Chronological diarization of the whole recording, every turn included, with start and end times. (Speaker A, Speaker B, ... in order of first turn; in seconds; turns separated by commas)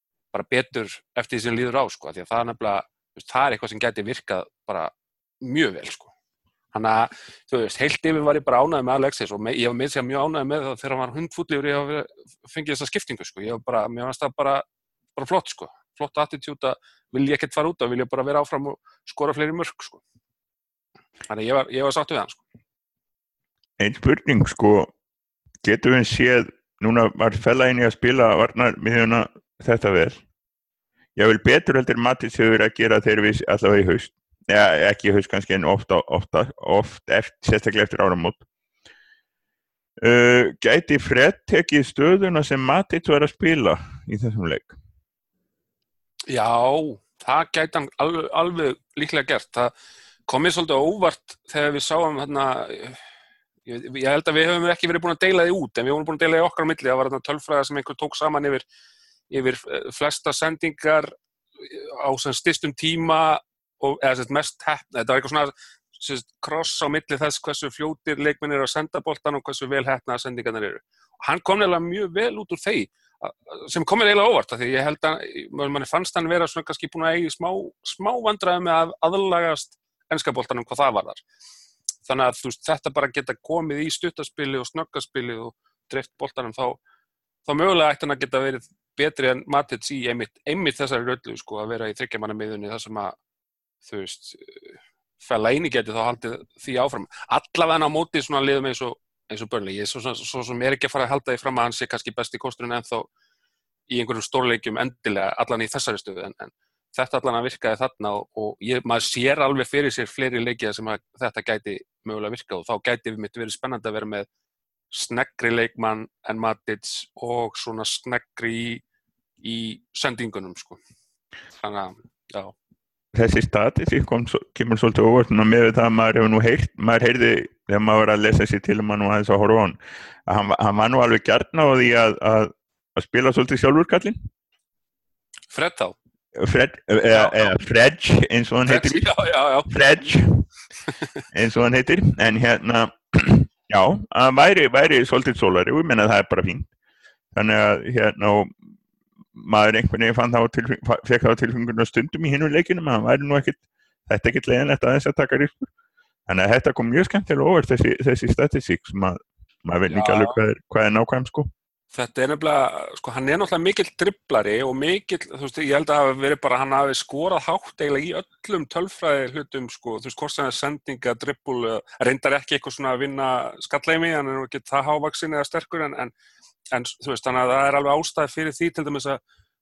Speaker A: 0.3-6.1, Speaker A: 6.7-14.6, Speaker A: 15.2-20.0, Speaker A: 21.3-22.4, Speaker B: 23.8-24.9, Speaker B: 25.6-30.2, Speaker B: 31.1-38.4, Speaker B: 40.0-44.7, Speaker A: 46.3-49.7, Speaker A: 50.3-53.0, Speaker A: 53.6-58.6, Speaker A: 59.3-81.2, Speaker A: 82.0-86.8, Speaker A: 87.5-93.2, Speaker A: 93.8-103.1, Speaker A: 103.9-114.2, Speaker A: 114.9-118.8, Speaker A: 119.4-120.8, Speaker A: 121.6-122.5, Speaker B: 123.1-134.3, Speaker A: 135.5-135.9, Speaker B: 136.4-139.1, Speaker A: 137.1-137.5, Speaker A: 138.7-139.9, Speaker B: 139.7-140.5, Speaker B: 141.3-146.7, Speaker B: 147.3-148.6, Speaker B: 149.3-155.7, Speaker B: 156.3-161.5, Speaker A: 159.9-160.3, Speaker A: 161.9-176.1, Speaker A: 176.7-179.2